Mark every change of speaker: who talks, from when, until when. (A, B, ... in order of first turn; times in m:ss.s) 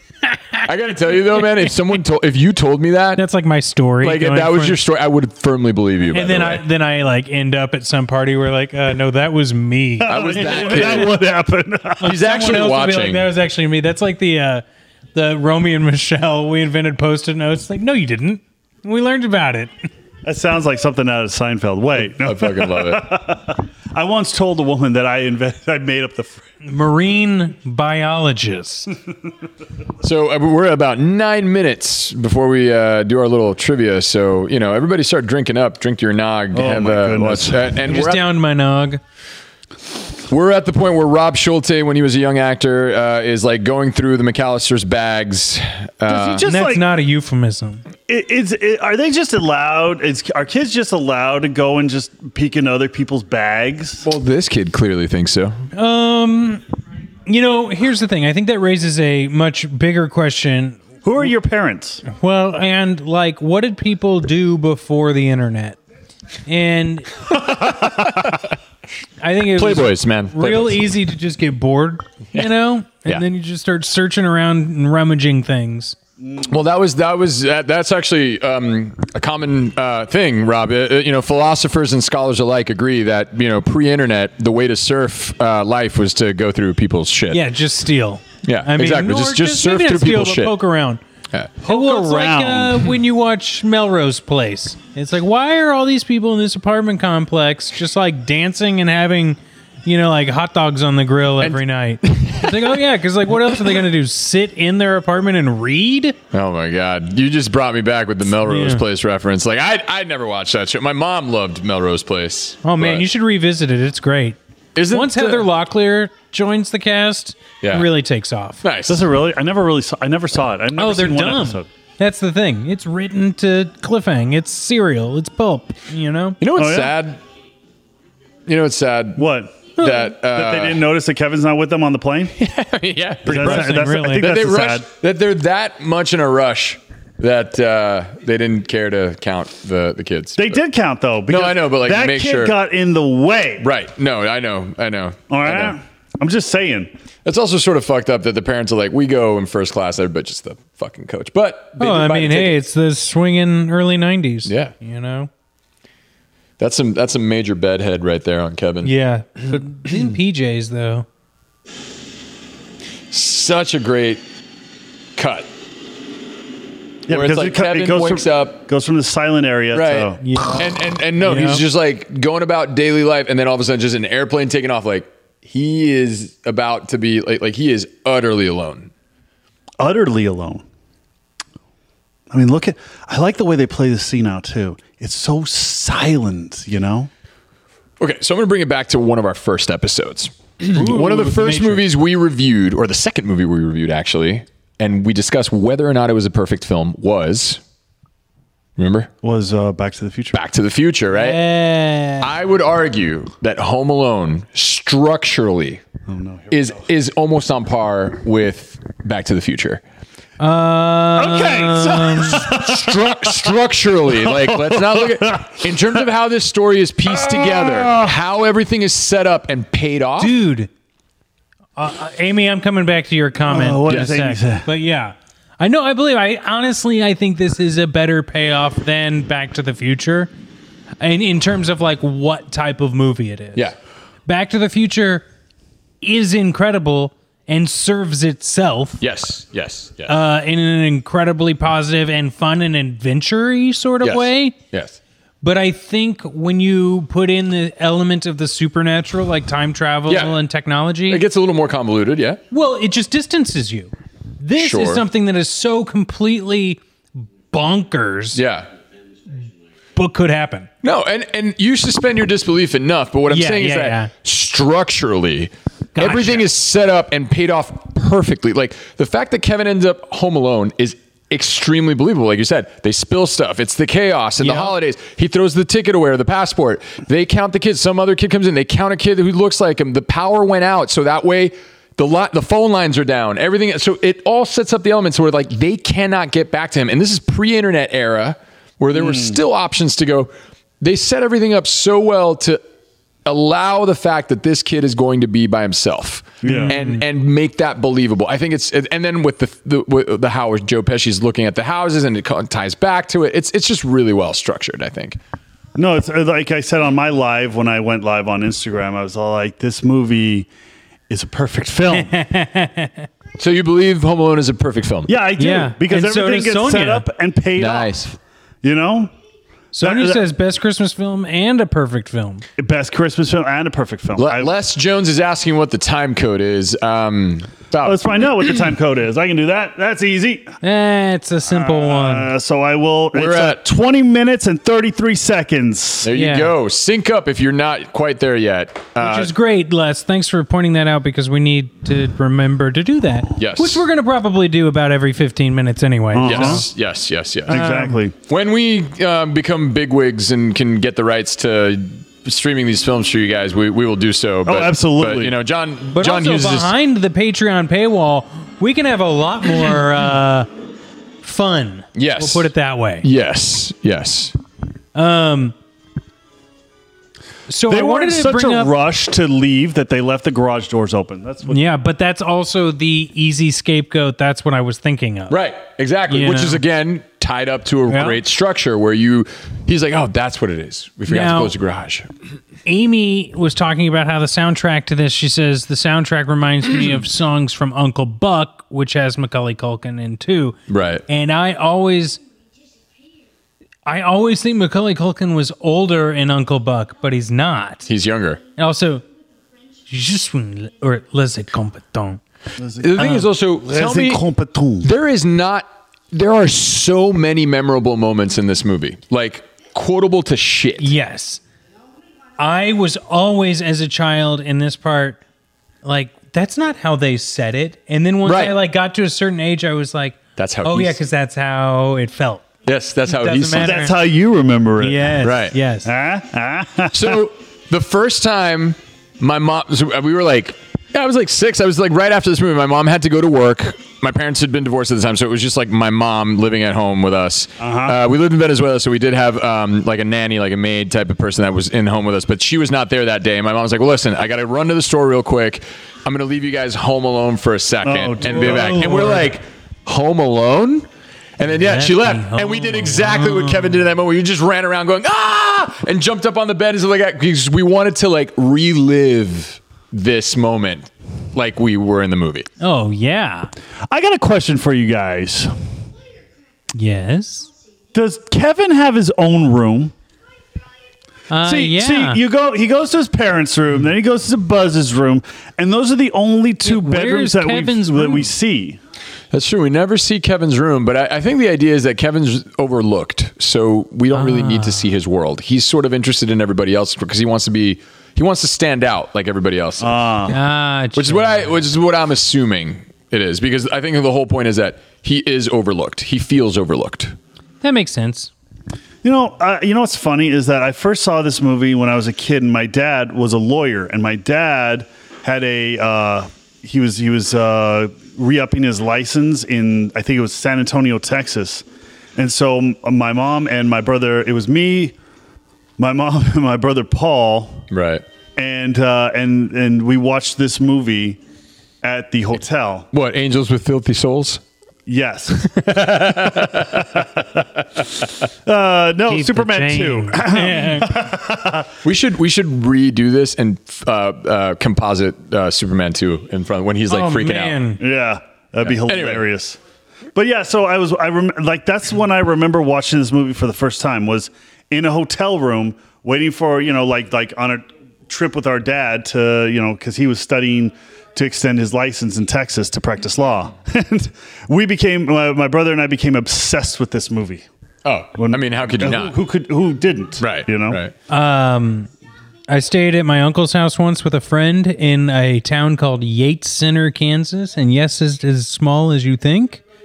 0:00.4-0:00.7 A
0:00.6-0:03.2 B
0:01.4-0:01.6 A
0:03.2-0:04.8 A
0:04.0-0:06.6 B
0:06.1-0:11.2 A
0:10.0-0:12.2 C
0:10.0-0:11.2 B
0:12.0-0:13.3 B
0:12.0-0:14.6 A
0:15.2-0:19.7 A
0:20.2-0:26.4 C
0:22.0-0:23.2 B
0:26.6-0:28.9 A
0:30.0-0:38.2 B
0:36.5-0:37.8 C
0:37.8-0:39.0 A
0:40.3-0:46.4 B
0:46.1-0:46.9 C
0:46.4-0:47.8 A
0:48.1-0:54.0 C
0:54.0-0:55.6 B
0:55.7-0:56.6 A
0:57.3-1:00.8 A
1:01.0-1:02.0 C
1:02.1-1:05.8 A
1:06.5-1:07.5 A
1:07.3-1:08.4 B
1:09.2-1:16.0 A
1:09.6-1:10.9 B
1:16.2-1:16.5 C
1:16.5-1:27.4 B
1:27.3-1:31.0 A
1:28.4-1:30.6 B
1:31.6-1:32.9 C
1:31.7-1:46.2 A
1:41.4-1:42.8 B
1:43.5-1:43.8 B
1:46.3-1:53.1 B
1:48.4-1:48.8 A
1:52.6-1:54.4 A
1:54.8-1:55.5 B
1:54.9-1:58.6 A
1:57.6-1:57.9 B
1:58.6-1:59.1 B
1:58.9-2:01.7 C
2:00.8-2:06.4 A
2:06.4-2:07.2 B
2:06.6-2:07.0 C
2:08.5-2:10.8 B
2:09.2-2:12.4 C
2:09.8-2:10.0 A
2:12.4-2:20.6 B
2:13.2-2:14.9 C
2:13.3-2:14.3 A
2:20.4-2:23.7 C
2:21.3-2:22.5 B
2:23.6-2:25.8 B
2:25.3-2:26.9 C
2:27.2-2:32.6 B
2:31.8-2:35.3 A
2:34.5-2:34.7 B
2:36.6-2:38.9 B
2:38.8-2:41.1 A
2:43.1-2:44.2 B
2:45.2-2:45.5 B
2:47.1-2:50.2 C
2:47.1-2:48.6 B
2:49.7-2:58.9 B
2:50.2-2:51.6 A
2:59.8-3:00.6 C
3:02.3-3:07.1 C
3:08.0-3:17.6 B
3:10.7-3:11.8 A
3:18.8-3:19.1 B
3:19.2-3:20.4 C
3:20.3-3:21.4 B
3:21.1-3:22.3 A
3:22.2-3:25.8 B
3:26.1-3:26.8 C
3:26.5-3:29.8 B
3:30.4-3:32.5 A
3:31.2-3:33.6 C
3:32.2-3:40.4 B
3:34.1-3:35.8 C
3:37.1-3:38.2 C
3:40.2-3:40.7 A
3:41.8-3:50.3 A
3:43.5-3:44.7 C
3:51.0-3:53.7 A
3:54.3-3:55.3 A
3:56.0-3:59.0 A
3:59.0-4:00.2 B
4:00.1-4:04.6 A
4:04.0-4:05.0 B
4:05.4-4:11.2 A
4:10.1-4:10.4 B
4:11.1-4:12.4 B
4:12.5-4:16.8 A
4:14.6-4:15.0 B
4:17.5-4:18.4 A
4:18.3-4:18.7 B
4:20.0-4:20.7 A
4:20.8-4:50.3 B
4:23.3-4:24.1 A
4:26.0-4:26.4 A
4:34.4-4:34.7 A
4:48.9-4:49.4 C
4:50.8-4:52.6 B
4:53.2-5:05.2 B
4:56.4-4:56.8 C
4:56.4-4:57.0 A
5:05.8-5:10.5 C
5:11.1-5:12.2 C
5:11.9-5:13.1 A
5:13.4-5:15.1 B
5:15.1-5:18.0 C
5:15.4-5:17.1 A
5:17.6-5:18.2 B
5:18.6-5:19.1 C
5:19.7-5:22.4 A
5:19.8-5:20.2 C
5:22.6-5:24.5 C
5:24.2-5:28.1 B
5:27.8-5:30.6 C
5:30.6-5:32.3 A
5:31.5-5:36.1 C
5:33.1-5:33.6 B
5:36.0-5:39.3 B
5:36.1-5:36.5 A
5:39.0-5:46.6 A
5:43.4-5:43.8 B
5:46.1-5:46.7 C
5:46.2-5:47.6 B
5:47.5-5:48.2 C
5:47.5-5:48.0 A
5:48.2-5:56.7 B
5:54.5-5:55.4 C
5:56.0-6:00.5 A
6:01.2-6:03.1 A
6:02.0-6:02.5 B
6:03.0-6:04.4 B
6:05.0-6:05.6 A
6:07.5-6:08.7 A
6:07.7-6:11.6 C
6:11.5-6:15.4 A
6:15.3-6:22.1 B
6:16.1-6:16.6 A
6:17.9-6:18.2 A
6:21.1-6:21.5 A
6:22.7-6:32.2 A
6:30.7-6:31.0 B
6:33.9-6:37.9 A
6:37.9-6:38.4 B
6:38.6-6:39.0 A
6:39.9-6:42.2 A
6:42.6-6:44.9 C
6:42.8-6:44.2 B
6:43.0-6:43.3 A
6:44.8-6:50.9 B
6:50.8-6:51.4 A
6:52.4-6:55.2 A
6:55.8-7:02.5 A
6:58.2-6:58.6 B
7:00.4-7:01.0 B
7:02.6-7:03.8 B
7:03.1-7:04.0 A
7:03.6-7:05.2 C
7:04.8-7:05.9 A
7:05.2-7:05.6 B
7:05.8-7:07.2 C
7:06.9-7:30.9 B
7:17.6-7:18.0 C
7:27.8-7:29.2 C
7:28.2-7:29.3 A
7:31.4-7:42.5 B
7:31.5-7:33.8 A
7:42.6-7:43.5 A
7:43.9-7:45.5 C
7:46.8-7:47.5 A
7:47.9-7:49.9 C
7:51.3-7:52.2 A
7:51.4-7:58.8 C
7:56.6-7:58.3 A
7:59.3-8:10.0 B
8:04.1-8:04.9 A
8:09.8-8:10.4 C
8:10.3-8:11.6 A
8:11.0-8:17.2 B
8:17.6-8:18.3 A
8:19.0-8:31.6 C
8:32.2-8:35.0 C
8:35.8-8:37.7 C
8:37.7-8:38.0 B
8:38.4-8:41.2 C
8:41.8-8:42.9 C
8:42.9-8:44.4 B
8:44.9-8:47.2 C
8:45.4-8:47.2 B
8:48.5-8:51.7 C
8:49.1-8:51.0 A
8:51.8-8:57.6 B
8:56.9-8:57.8 A
8:57.8-8:59.6 C
8:58.6-8:59.2 B
9:00.2-9:17.5 C
9:17.8-9:19.2 B
9:18.2-9:20.8 C
9:20.2-9:20.9 B
9:21.1-9:21.9 A
9:22.5-9:29.6 A